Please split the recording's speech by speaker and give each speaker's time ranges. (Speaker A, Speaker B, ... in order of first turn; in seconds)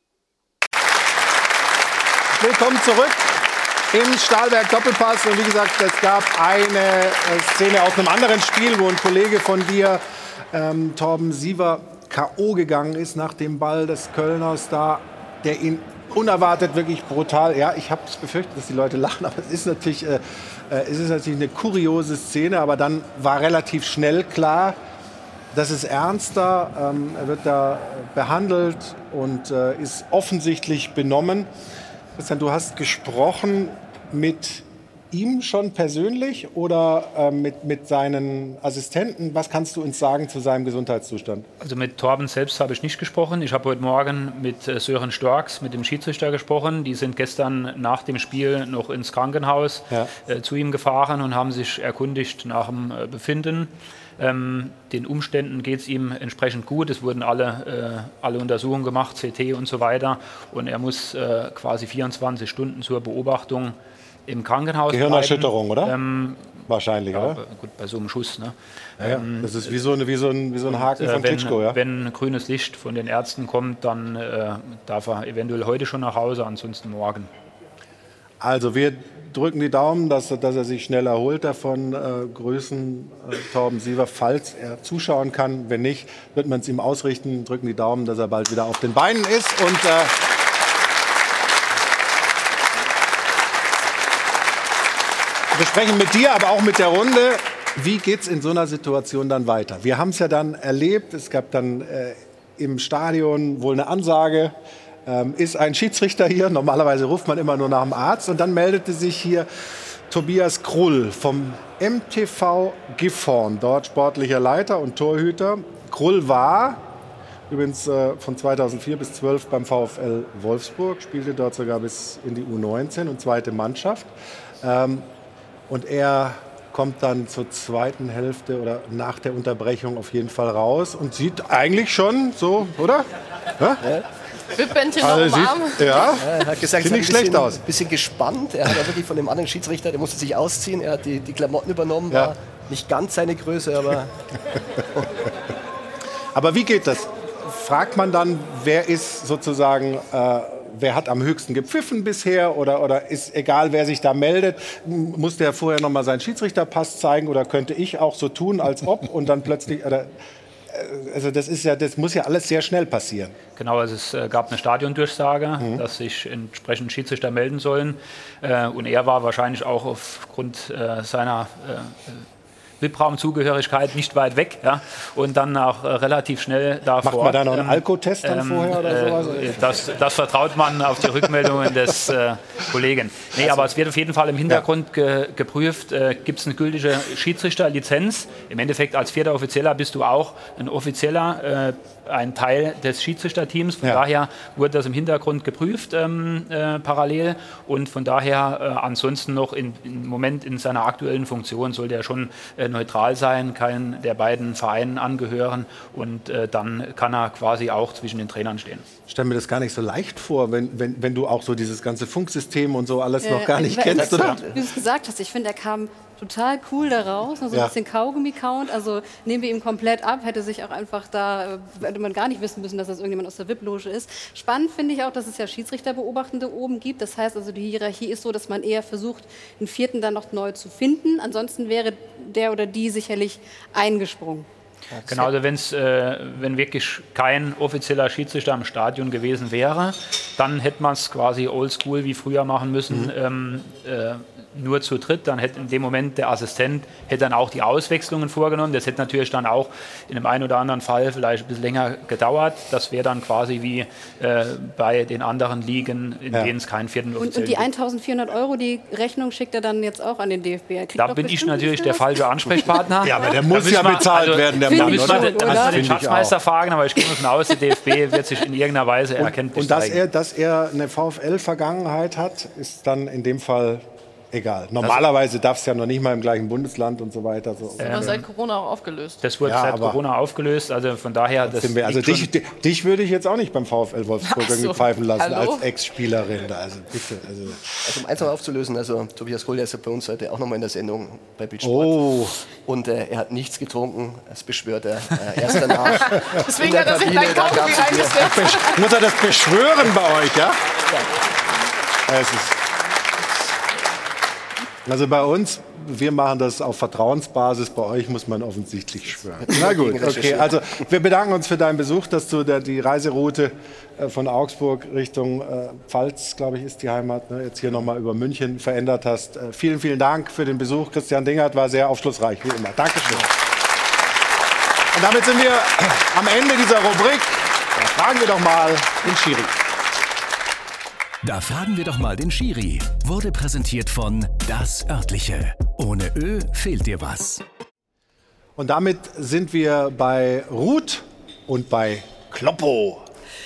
Speaker A: 2.4-24.8, 25.5-31.5, 32.2-41.5, 64.9-65.9, 66.7-67.4, 69.0-71.8, 78.4-90.2, 95.5-109.5, 110.1-116.8, 117.5-125.1, 125.7-133.8, 135.0-137.6, 146.3-160.1, 160.7-163.4, 177.0-179.9, 183.4-183.7, 209.1-214.4, 263.0-266.4, 269.2-278.2, 279.4-280.0, 281.4-287.9, 291.6-292.4, 295.9-300.6, 302.1-302.6, 304.9-323.3, 324.9-329.6, 338.6-343.0
Speaker B: 41.6-69.7, 70.7-77.3, 163.6-172.2, 172.8-208.8, 235.1-257.7, 260.9-270.0, 277.8-278.3, 279.2-282.3
Speaker C: 134.6-135.9, 277.9-279.2, 284.2-285.6, 295.9-298.8
Speaker D: 136.2-144.1, 213.9-214.7, 234.9-235.3, 287.8-292.1, 292.6-298.6, 309.4-310.6
Speaker E: 213.2-234.5, 257.1-262.8, 264.6-265.9
Speaker F: 331.2-337.4